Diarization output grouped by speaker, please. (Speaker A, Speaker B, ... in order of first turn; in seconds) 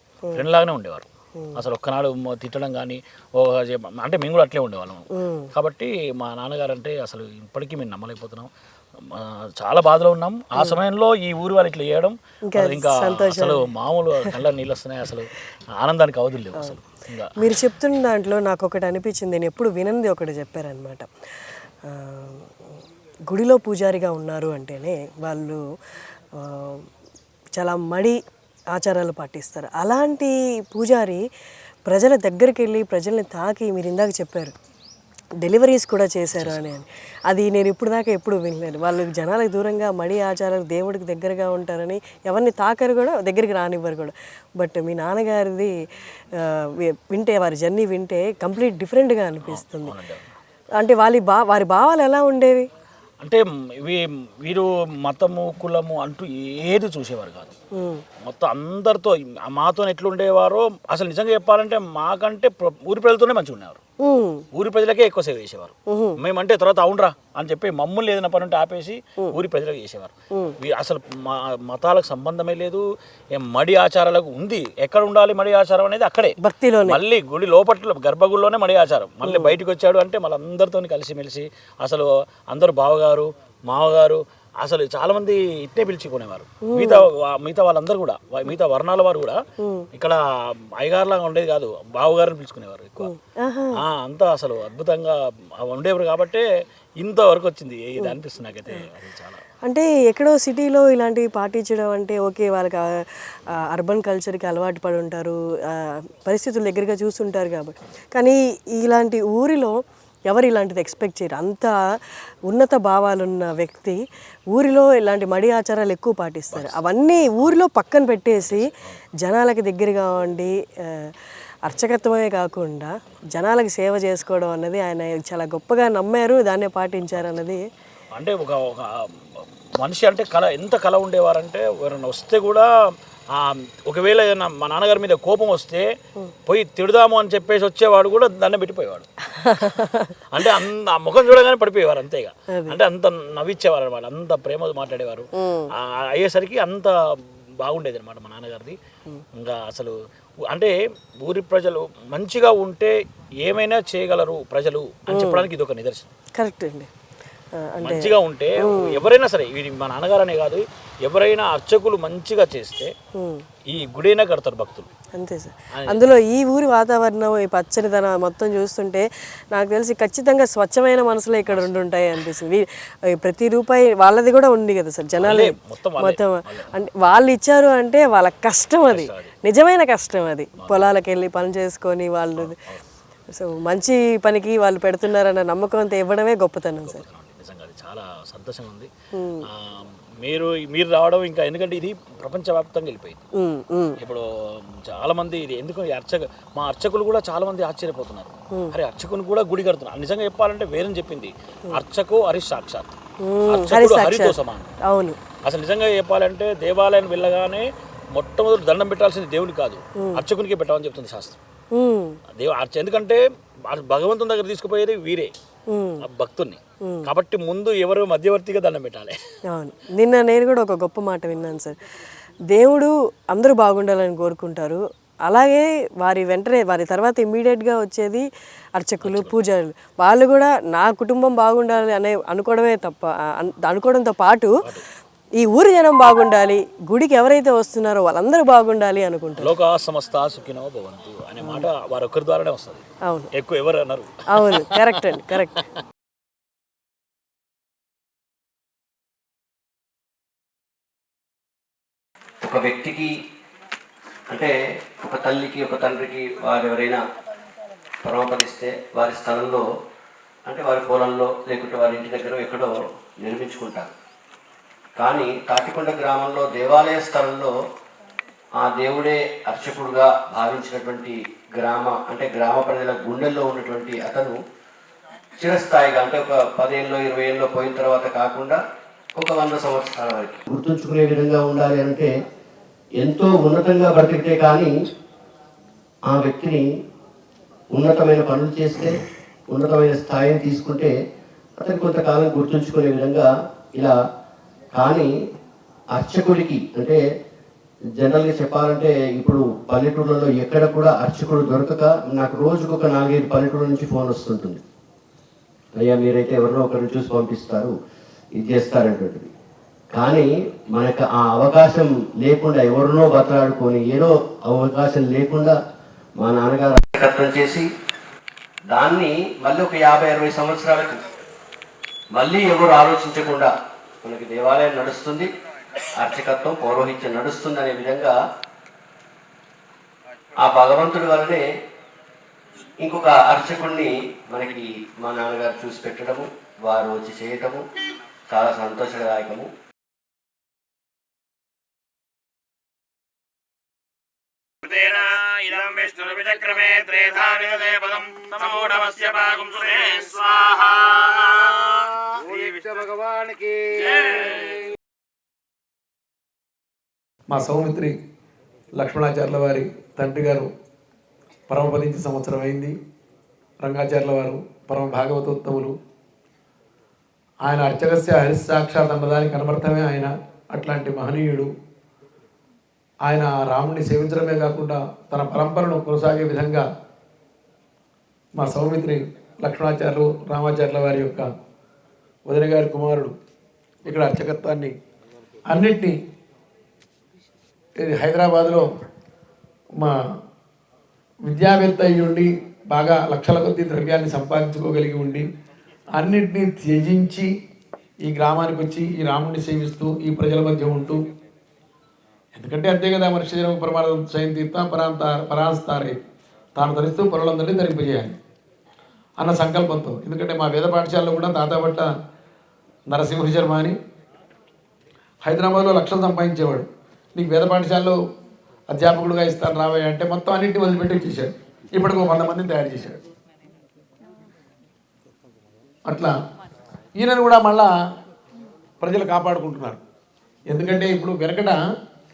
Speaker A: 0.3-8.5, 9.0-17.4, 36.4-36.6, 49.4-50.2, 53.2-57.5, 58.2-63.8, 64.5-72.8, 73.3-76.3, 76.8-89.4, 89.9-90.2, 90.8-93.1, 93.8-96.5, 97.0-99.4, 116.5-117.5, 118.4-119.0, 128.1-132.7, 133.3-135.9, 136.5-139.7, 140.3-146.9, 147.6-148.8, 149.3-149.9, 150.5-156.1, 157.8-162.9, 163.7-164.9, 175.2-176.7, 178.8-179.4, 180.6-180.9, 182.4-182.8, 186.8-188.9, 189.5-193.2, 194.0-203.0, 203.5-204.7, 205.4-211.4, 212.3-215.3, 216.0-219.2, 229.0-229.3, 239.4-245.2, 344.6-351.5
Speaker B: 5.1-5.5, 12.5-14.4, 17.4-21.1, 21.8-22.7, 23.3-25.6, 26.3-26.9, 27.6-28.2, 28.7-31.2, 31.9-34.5, 35.4-45.7, 46.4-49.9, 50.8-52.7, 57.8-58.0, 64.0-64.5, 65.9-66.2, 76.4-77.0, 79.2-79.6, 86.6-87.0, 89.6-89.9, 93.0-93.8, 99.7-109.7, 110.3-111.8, 112.5-114.0, 114.5-121.1, 121.6-127.7, 139.3-140.5, 142.5-142.8, 145.3-145.7, 155.1-155.5, 156.3-156.9, 157.6-159.1, 163.2-163.4, 165.2-182.6, 183.3-187.0, 189.1-189.5, 193.3-194.0, 203.2-205.2, 211.7-212.2, 215.7-216.1, 219.5-221.8, 222.5-228.2, 228.8-234.5, 235.4-239.5, 241.4-241.7, 244.3-245.7
Speaker C: 252.4-253.1, 254.3-257.0, 258.0-259.7, 260.5-263.9, 265.0-267.5, 268.6-274.4, 275.4-278.6, 279.1-282.1, 283.0-284.7, 286.1-286.7, 287.7-290.9, 291.6-293.9, 294.7-295.1, 295.9-297.0, 298.0-304.6, 305.8-307.8, 308.4-309.3, 309.9-315.6, 316.2-317.7, 318.7-321.1, 322.1-323.5, 324.0-325.3, 326.0-328.2, 330.4-331.4, 332.8-337.6, 338.3-339.5
Speaker D: 345.2-348.8, 349.6-353.7
Speaker E: 357.3-357.9, 358.8-360.5, 361.5-362.8, 363.6-365.8, 367.4-371.5, 373.1-376.6, 378.4-381.3, 382.3-383.1, 383.9-384.7, 385.5-385.9, 387.8-388.7, 391.3-395.2, 395.9-397.3, 398.1-401.0, 402.3-406.0, 406.6-408.1, 409.2-411.9, 412.9-413.8, 415.2-418.0, 418.7-423.0, 425.9-426.1, 427.0-427.7, 428.8-429.8, 430.5-431.6